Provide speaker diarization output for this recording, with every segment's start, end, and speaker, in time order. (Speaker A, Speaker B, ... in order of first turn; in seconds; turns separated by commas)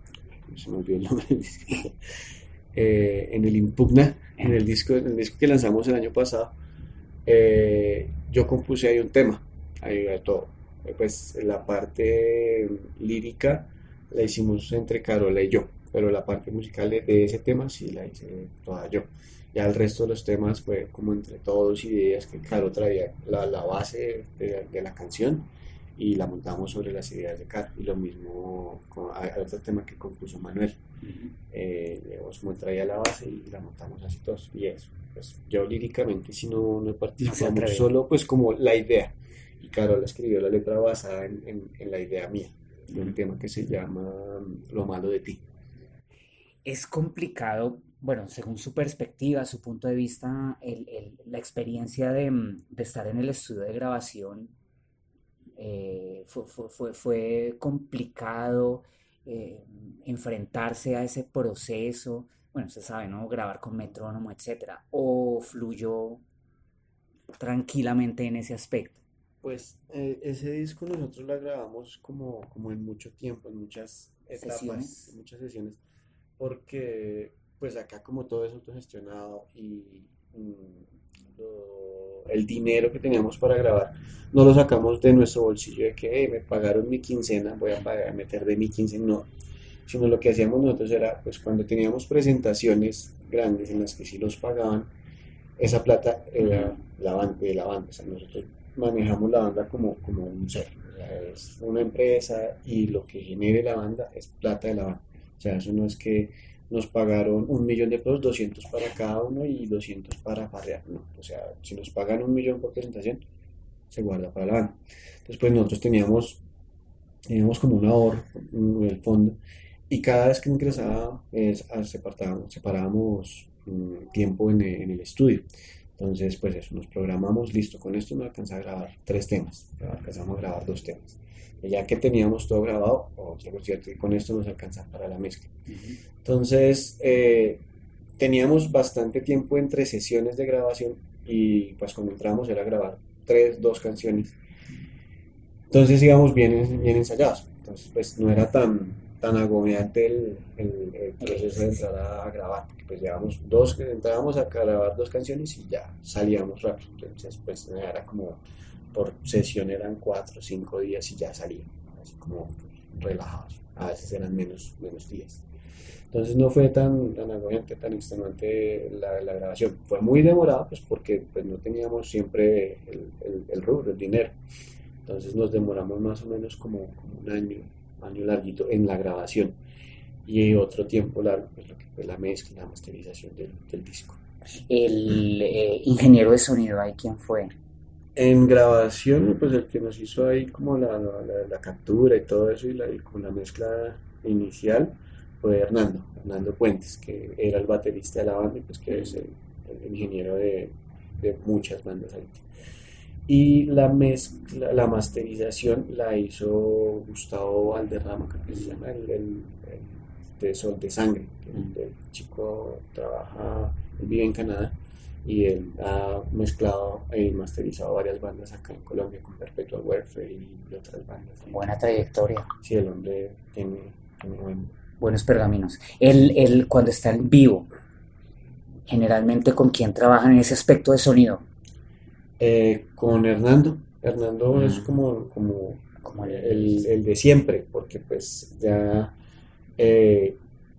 Speaker A: 0.5-1.9, Speaker A: 2.7-6.5, Speaker A: 7.2-30.8, Speaker A: 31.5-45.4, Speaker B: 37.2-37.9, Speaker B: 46.6-54.5, Speaker B: 55.5-66.2, Speaker B: 67.4-69.0, Speaker A: 69.4-75.8, Speaker B: 74.3-75.1, Speaker A: 76.4-89.3, Speaker A: 89.9-94.9, Speaker A: 95.6-113.2, Speaker B: 96.4-96.8, Speaker A: 113.9-116.4, Speaker A: 117.3-119.4, Speaker A: 119.9-125.4, Speaker A: 126.0-135.5, Speaker B: 135.7-136.0, Speaker A: 136.2-137.6, Speaker A: 138.2-144.4, Speaker A: 145.7-158.4, Speaker B: 151.2-151.7, Speaker A: 158.9-165.4, Speaker A: 166.1-174.4, Speaker A: 175.0-179.6, Speaker A: 180.2-184.2, Speaker B: 184.7-187.5, Speaker A: 188.2-202.4, Speaker B: 198.9-199.2, Speaker A: 203.3-221.6, Speaker B: 221.5-222.5, Speaker A: 222.6-224.7, Speaker B: 225.0-227.7, Speaker B: 228.9-231.4, Speaker A: 232.4-239.1, Speaker B: 234.5-234.9, Speaker B: 236.0-236.9, Speaker A: 239.8-240.4